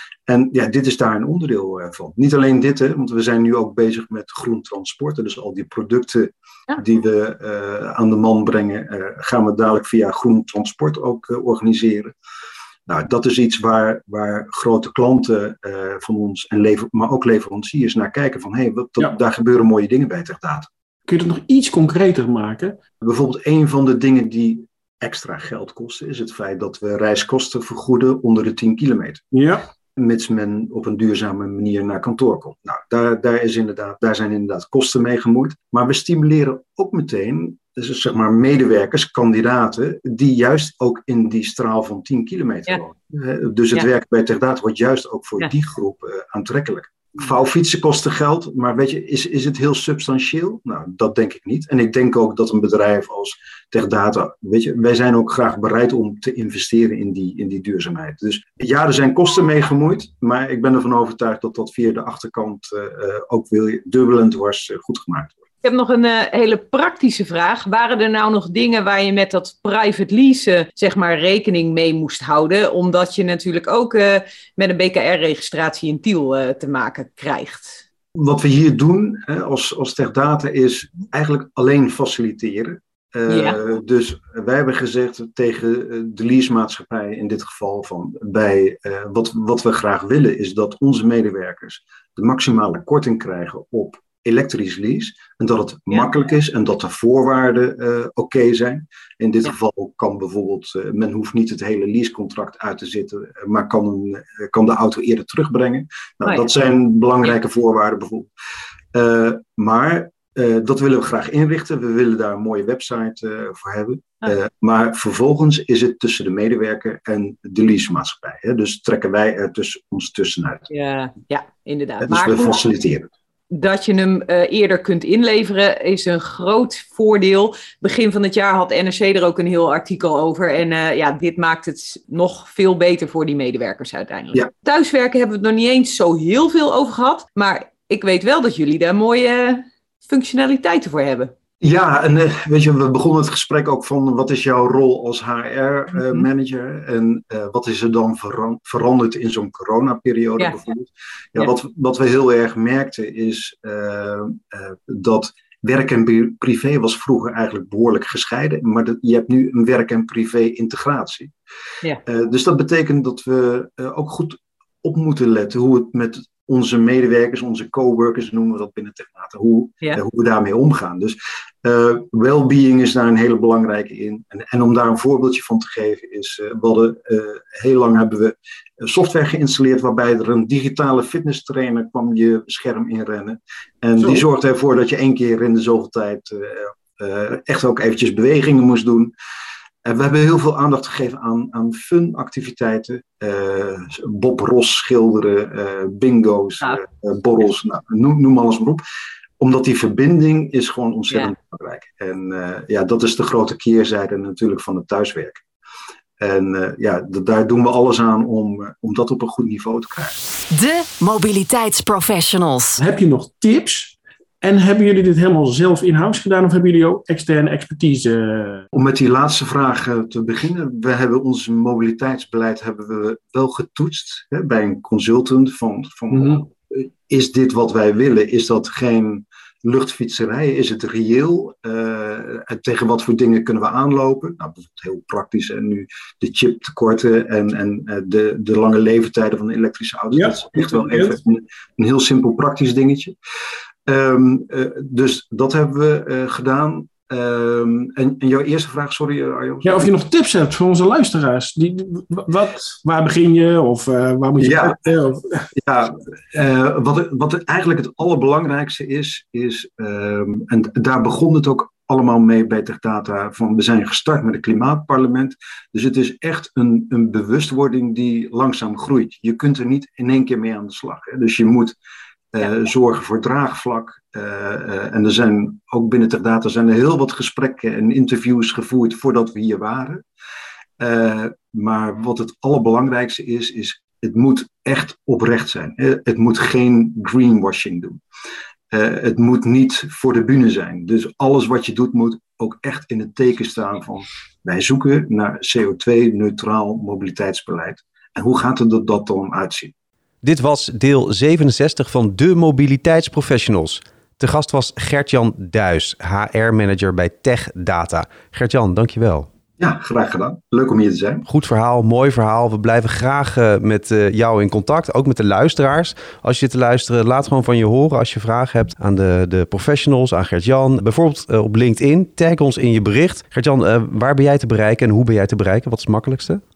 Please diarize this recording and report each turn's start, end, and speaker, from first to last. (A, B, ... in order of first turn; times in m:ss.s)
0:00.3-0:12.1 A
0:12.9-0:20.7 A
0:21.1-0:22.8 B
0:23.0-0:29.3 A
0:29.3-0:29.7 B
0:30.0-1:05.4 A
1:05.6-1:17.8 C
1:18.1-1:48.3 A
1:23.3-1:23.6 C
1:48.9-2:00.7 A
2:00.7-2:02.6 C
2:02.0-2:03.1 A
2:03.5-2:21.3 C
2:21.6-2:41.3 A
2:26.0-2:26.3 C
2:42.0-3:09.1 A
3:04.0-3:04.2 B
3:09.8-3:18.8 A
3:19.4-3:25.4 A
3:26.2-3:30.2 A
3:30.5-3:32.8 D
3:32.8-3:38.6 B
3:38.7-4:03.1 A
3:46.1-3:46.4 B
4:00.1-4:01.2 B
4:03.9-4:09.9 A
4:09.6-4:15.5 B
4:14.4-4:14.8 A
4:15.6-4:31.8 A
4:32.3-4:40.0 A
4:40.8-4:48.0 A
4:48.7-4:59.7 A
5:00.2-5:09.3 E
5:09.6-5:11.2 A
5:11.3-5:26.4 E